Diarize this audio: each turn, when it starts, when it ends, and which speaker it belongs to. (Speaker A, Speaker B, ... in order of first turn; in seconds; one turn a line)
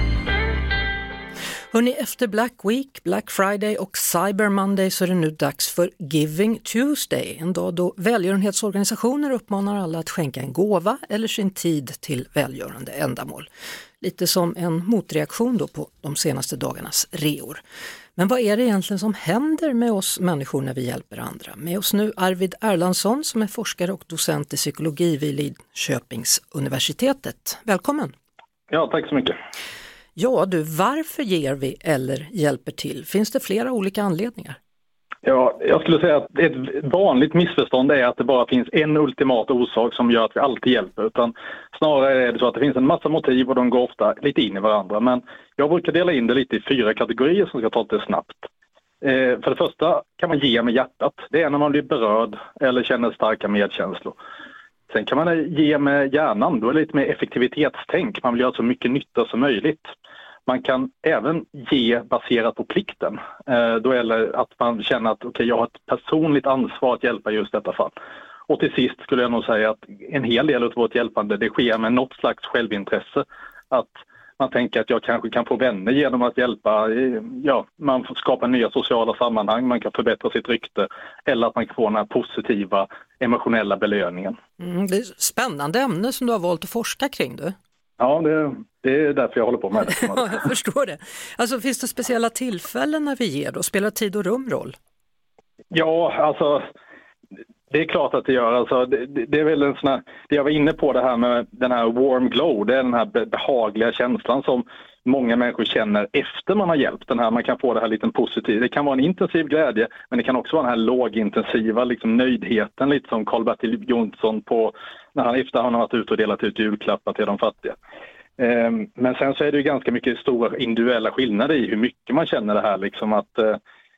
Speaker A: 1.7-13.5
Speaker A: 14.0-17.6
Speaker A: 18.1-28.1
Speaker B: 28.7-29.4
Speaker A: 30.1-34.6
Speaker B: 35.2-48.5
Speaker B: 49.0-54.2
Speaker B: 54.9-59.9
Speaker B: 60.5-67.9
Speaker B: 68.5-84.3
Speaker A: 84.6-87.5
Speaker B: 88.0-90.4
Speaker A: 89.8-94.8
Speaker B: 95.7-96.6
Speaker B: 97.7-117.8
Speaker B: 118.4-123.6